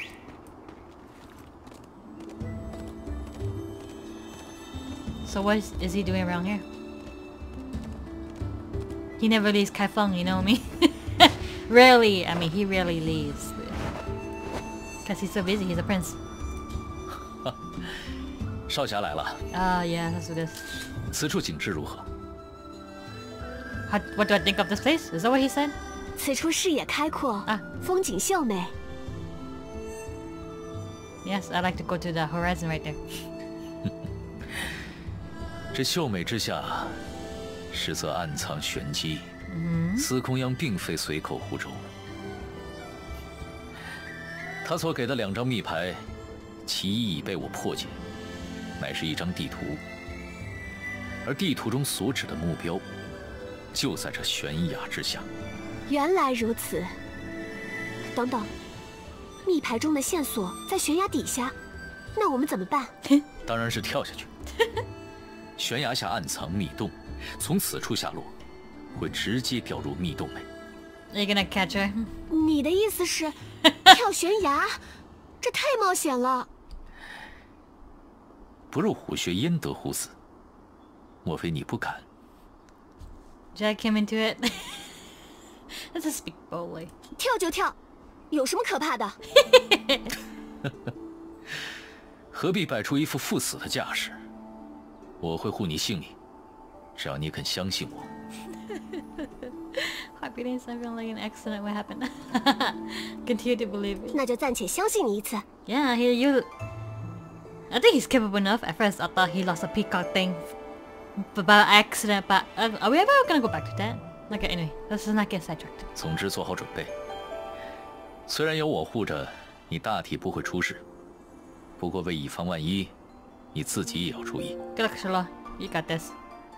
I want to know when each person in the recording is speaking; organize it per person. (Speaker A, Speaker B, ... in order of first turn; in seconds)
Speaker A: 5.2-6.6, 9.2-13.8, 15.0-16.2, 19.5-20.8, 23.9-25.8, 31.2-33.0, 39.5-40.1, 71.1-72.1, 83.5-85.0, 85.9-86.9, 89.5-90.1, 99.2-104.2, 105.7-106.5, 107.7-110.5, 111.2-115.9, 124.8-126.1
Speaker B: 17.4-18.0, 18.7-19.4, 21.1-22.1, 35.7-37.0, 37.7-39.3, 40.0-41.9, 44.6-46.1, 46.6-48.0, 48.8-49.8, 51.2-52.8, 53.7-55.3, 63.4-64.3, 65.6-68.3, 68.9-70.5, 78.7-80.1, 81.2-82.0, 92.3-94.2, 95.2-96.1, 97.0-98.1, 116.0-116.9, 118.3-120.8, 121.8-122.9, 123.5-124.6
Speaker C: 26.1-28.7, 55.9-56.9, 58.1-58.5, 59.4-61.5, 62.1-62.9, 72.3-74.8, 75.4-76.5, 87.2-87.8, 88.3-89.2, 104.1-105.5